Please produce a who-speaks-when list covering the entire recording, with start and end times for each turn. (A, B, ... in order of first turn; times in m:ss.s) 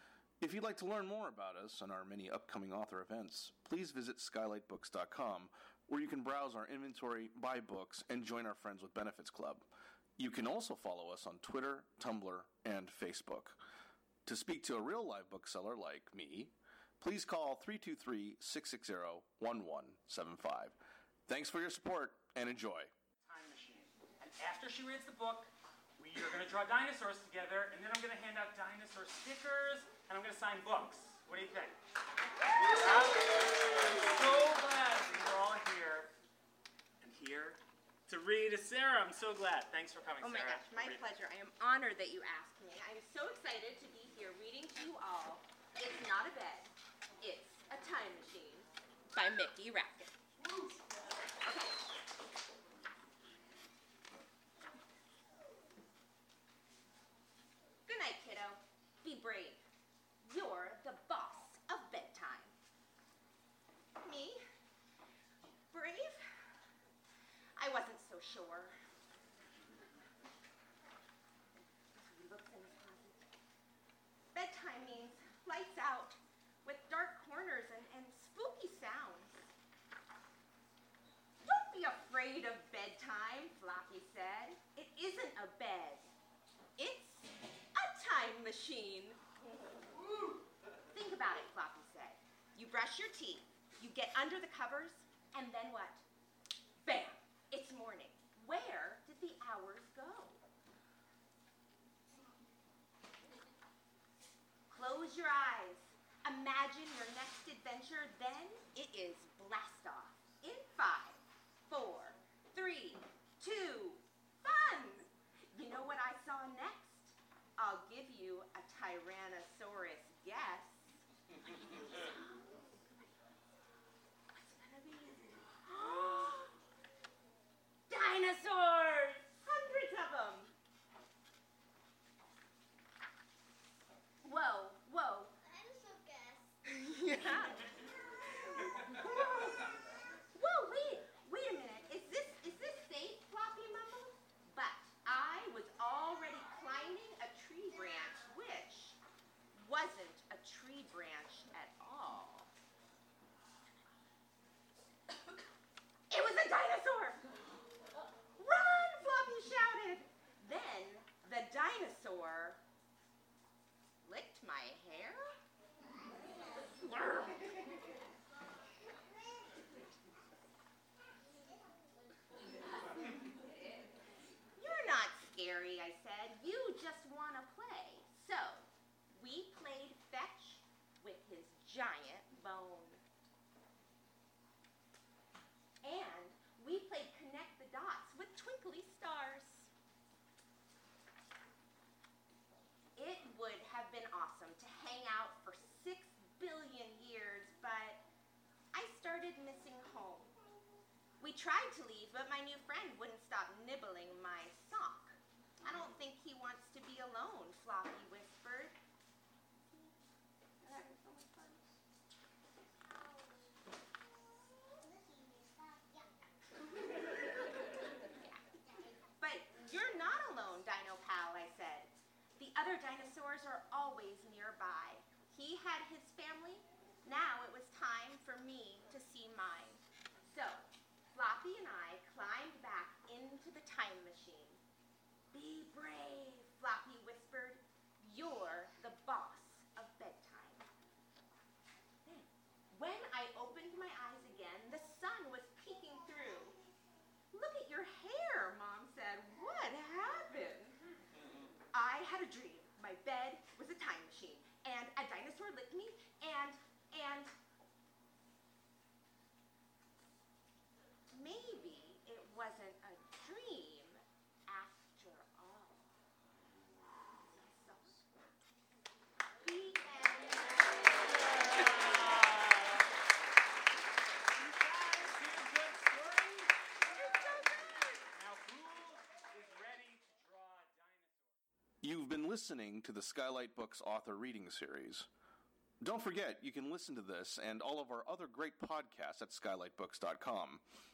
0:00.4-0:13.6 A
0:14.3-0:20.8 A
0:21.3-0:22.9 A
0:23.2-0:31.8 B
0:32.6-0:36.1 B
0:37.0-0:41.1 B
0:40.2-0:50.1 C
0:51.4-0:51.8 C
0:57.9-0:59.6 C
1:00.2-1:02.5 C
1:04.0-1:04.4 C
1:05.7-1:06.3 C
1:07.6-1:08.8 C
1:11.9-1:13.3 C
1:14.3-1:19.5 C
1:21.4-1:26.1 C
1:26.8-1:29.2 C
1:30.9-1:36.0 C
1:36.8-1:40.4 C
1:44.7-2:01.0 C
2:01.7-2:02.6 C
2:04.3-2:06.6 C
2:07.9-2:10.5 C
2:14.2-2:15.4 C
2:15.5-2:16.5 D
2:16.6-2:19.7 C
2:20.3-2:29.0 C
2:29.6-2:32.5 C
2:36.1-2:37.2 C
2:38.4-2:42.6 C
2:44.0-2:45.3 C
2:46.7-2:47.7 C
2:54.6-3:03.0 C
3:05.8-3:09.7 C
3:13.0-3:18.0 C
3:18.7-3:20.3 C
3:21.2-3:28.8 C
3:30.6-3:31.6 C
3:35.0-3:36.0 D
3:39.2-3:54.6 C
3:55.3-4:00.7 C
4:02.0-4:06.6 C
4:07.3-4:10.8 C
4:11.7-4:17.3 C
4:21.1-4:25.9 C
4:27.3-4:28.0 C
4:29.4-4:32.0 C
4:31.4-4:32.7 B
4:34.3-4:36.8 B
4:36.8-4:38.1 C
4:38.1-4:41.4 B
4:41.8-4:45.1 A
4:45.8-4:50.6 A